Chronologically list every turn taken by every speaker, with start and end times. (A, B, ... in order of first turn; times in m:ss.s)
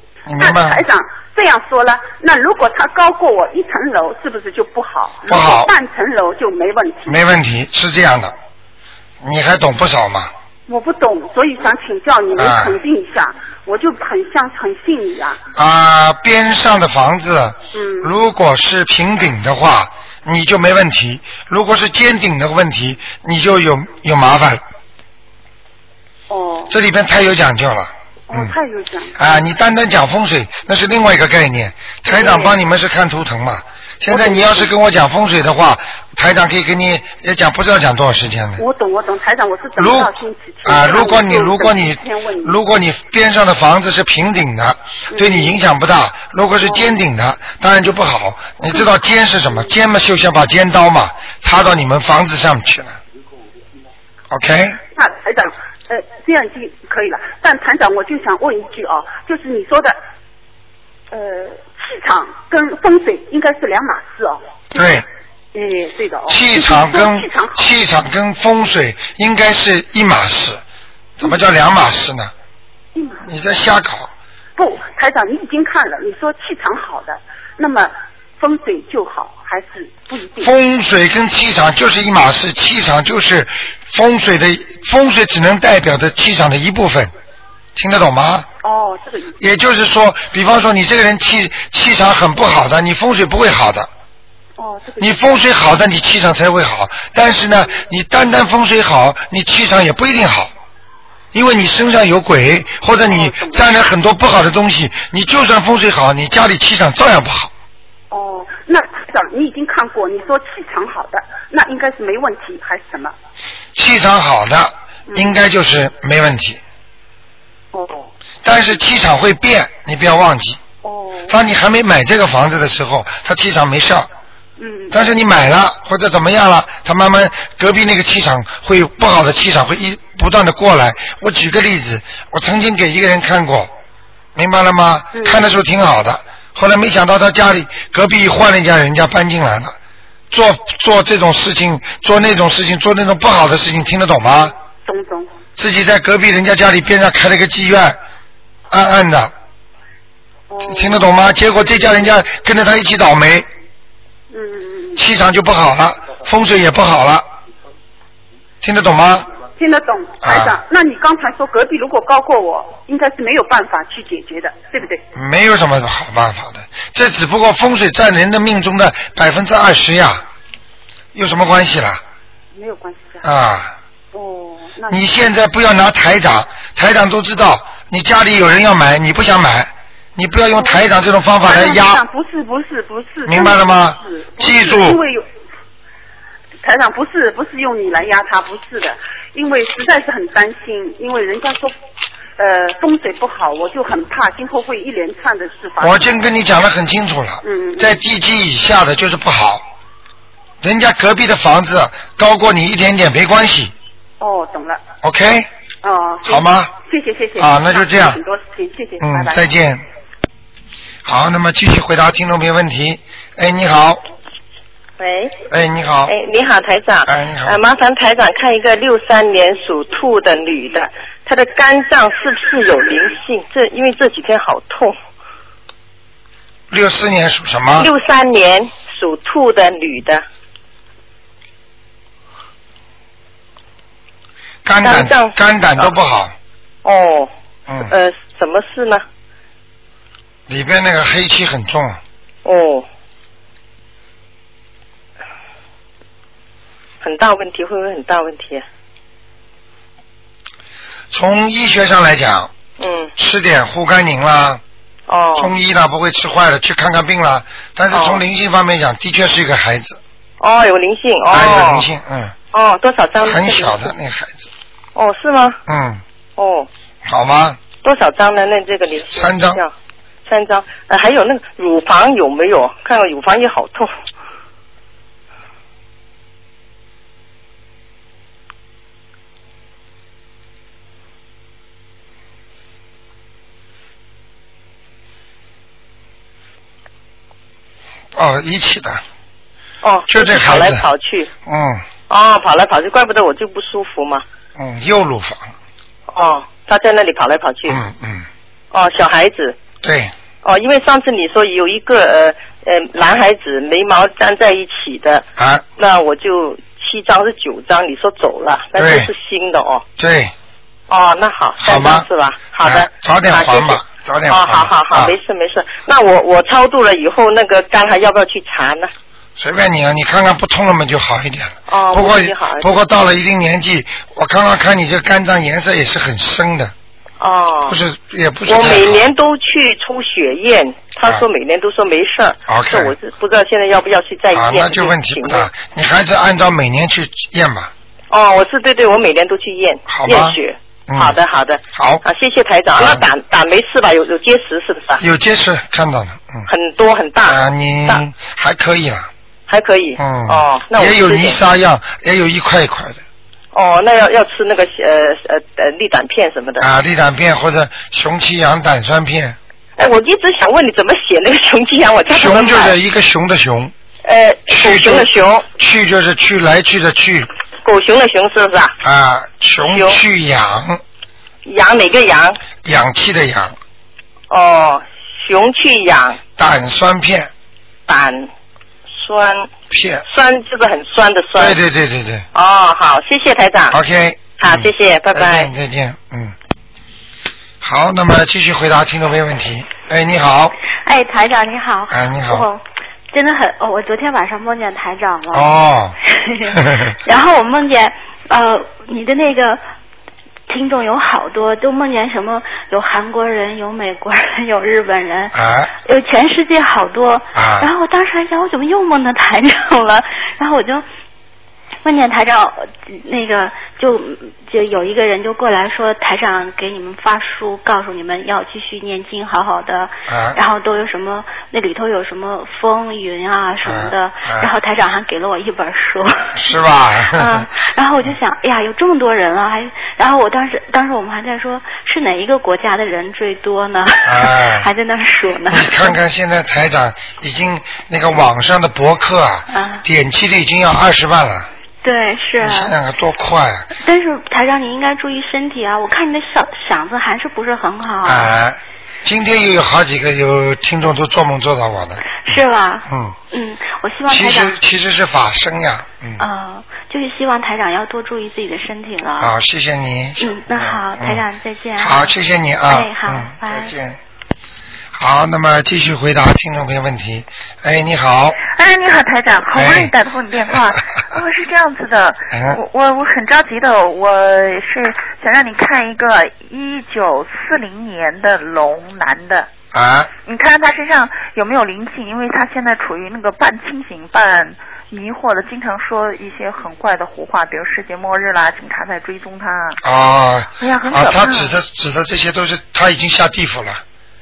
0:00.3-0:00.8 A
0:00.4-0:07.2 B
0:05.2-0:05.7 A
0:07.0-0:08.3 A
0:09.2-0:10.3 A
0:10.7-0:15.4 B
0:12.4-0:12.8 A
0:15.5-0:24.6 A
0:17.7-0:18.1 B
0:26.3-0:26.7 B
0:26.7-0:28.5 A
0:28.3-0:29.3 B
0:29.2-0:38.6 A
0:32.1-0:32.6 B
0:34.1-0:34.7 B
0:38.6-0:42.6 B
0:39.8-0:40.1 A
0:40.6-0:53.0 A
0:45.1-0:45.6 B
0:46.6-0:47.0 B
0:48.7-0:49.7 B
0:54.3-0:54.8 A
0:54.9-1:00.0 B
1:01.1-1:04.9 B
1:04.7-1:05.0 A
1:05.5-1:07.7 B
1:06.3-1:10.6 A
1:11.2-1:12.3 A
1:13.0-1:13.2 B
1:13.2-1:14.1 A
1:14.6-1:20.5 B
1:20.4-1:27.1 A
1:27.8-1:28.4 A
1:28.6-1:29.4 B
1:29.4-1:33.9 A
1:34.6-1:35.4 B
1:35.0-1:40.5 A
1:41.3-1:47.5 A
1:43.0-1:43.7 B
1:48.1-1:53.1 B
1:53.7-1:56.6 A
1:55.1-1:55.4 B
1:57.7-1:58.1 B
1:58.4-2:00.6 A
2:00.8-2:01.4 B
2:01.3-2:04.1 A
2:04.6-2:05.0 B
2:04.9-2:13.7 A
2:14.4-2:19.7 A
2:15.1-2:15.5 B
2:20.3-2:24.5 A
2:24.8-2:25.3 B
2:25.6-2:28.0 A
2:28.7-2:29.3 A
2:30.5-2:31.1 B
2:30.6-2:33.5 A
2:34.3-2:35.0 B
2:35.0-2:37.2 A
2:38.6-2:39.3 A
2:39.6-2:45.0 B
2:40.2-2:40.6 A
2:45.1-2:50.2 A
2:51.1-2:52.0 A
2:52.5-2:53.3 B
2:53.2-2:53.7 A
2:54.1-2:55.0 B
2:54.9-3:02.0 A
3:00.6-3:00.8 B
3:01.4-3:05.2 B
3:03.3-3:05.0 A
3:06.6-3:11.7 B
3:12.4-3:16.2 B
3:15.8-3:19.6 A
3:17.4-3:17.9 B
3:20.6-3:23.7 A
3:24.2-3:24.8 B
3:25.0-3:25.5 A
3:25.8-3:29.4 B
3:26.2-3:26.7 A
3:27.4-3:28.2 A
3:29.0-3:29.8 A
3:31.0-3:34.0 A
3:35.0-3:35.4 C
3:35.5-3:36.1 A
3:36.1-3:45.0 C
3:37.0-3:37.6 A
3:46.7-3:47.9 A
3:47.8-3:50.2 C
3:54.6-3:56.3 A
3:54.8-3:55.9 C
3:56.8-3:57.3 C
3:57.8-3:59.0 C
4:00.5-4:02.0 A
4:02.4-4:02.8 C
4:07.0-4:08.6 C
4:11.1-4:12.5 A
4:12.8-4:13.1 C
4:13.2-4:14.6 A
4:15.1-4:15.5 C
4:15.4-4:20.0 A
4:17.9-4:18.2 C
4:20.4-4:21.9 C
4:21.3-4:22.3 A
4:22.5-4:23.9 C
4:23.2-4:24.5 A
4:24.9-4:25.6 C
4:25.7-4:26.0 A
4:26.4-4:26.7 C
4:27.0-4:27.6 A
4:27.8-4:29.7 C
4:29.1-4:29.6 A
4:30.2-4:33.9 C
4:48.1-4:49.0 A
4:49.8-4:51.3 C
4:50.1-4:50.8 A
4:51.4-4:51.8 A
4:52.1-4:54.2 C
4:54.6-4:55.5 A
4:56.1-4:57.8 C
4:57.7-4:58.2 A
4:58.7-4:59.6 C
4:59.8-5:00.1 A
5:00.4-5:05.2 C
5:05.4-5:05.6 A
5:05.8-5:09.8 C
5:08.8-5:09.1 A
5:10.0-5:10.3 A
5:10.9-5:18.9 C
5:11.6-5:12.1 A
5:12.6-5:15.1 A
5:19.4-5:26.7 A
5:21.7-5:22.7 C
5:27.2-5:27.8 C
5:27.7-5:29.1 A
5:28.4-5:35.5 C
5:32.5-5:32.9 A
5:34.3-5:37.7 A
5:38.1-5:45.0 C
5:39.9-5:40.4 A
5:40.9-5:41.2 A
5:41.7-5:42.0 A
5:42.7-5:43.0 A
5:45.0-5:46.5 A
5:46.5-5:48.0 C
5:47.2-5:49.1 A
5:49.5-5:51.4 C
5:50.0-5:53.0 A
5:53.5-5:56.7 C
5:56.6-5:59.4 A
5:59.8-6:02.8 C
6:02.1-6:03.7 A
6:04.0-6:05.4 C
6:04.5-6:07.3 A
6:07.6-6:08.7 C
6:08.8-6:10.8 A
6:09.7-6:10.0 C
6:11.4-6:12.4 C
6:12.6-6:13.6 A
6:14.3-6:16.2 C
6:16.4-6:17.3 A
6:17.9-6:18.3 C
6:18.9-6:19.5 C
6:19.7-6:20.0 A
6:20.1-6:21.6 C
6:21.4-6:22.2 A
6:22.3-6:23.8 C
6:23.7-6:26.3 A
6:24.4-6:25.5 C
6:27.6-6:30.5 A
6:30.8-6:39.6 D
6:31.9-6:32.5 A
6:35.3-6:35.9 A
6:36.6-6:36.9 A
6:40.5-6:50.8 D
6:45.3-6:45.7 A
6:47.3-6:47.7 A
6:51.8-7:06.5 D
7:00.1-7:00.4 A
7:03.6-7:04.5 A
7:06.4-7:07.5 A
7:07.1-7:16.0 D
7:14.0-7:14.7 A
7:15.5-7:21.5 A
7:19.5-7:19.8 D
7:21.8-7:22.8 D
7:22.4-7:23.7 A
7:23.7-7:28.3 D
7:28.0-7:33.2 A
7:32.0-7:34.6 D
7:34.1-7:36.2 A
7:36.2-7:39.3 D
7:39.2-7:41.2 A
7:40.2-7:42.1 D
7:41.8-7:44.0 A
7:42.7-7:43.8 D
7:44.9-7:48.4 A
7:48.4-7:59.5 E
7:49.5-7:49.9 A
7:52.3-7:52.6 A
7:59.7-8:00.1 A
8:00.2-8:09.8 E
8:09.8-8:13.8 A
8:10.6-8:11.6 E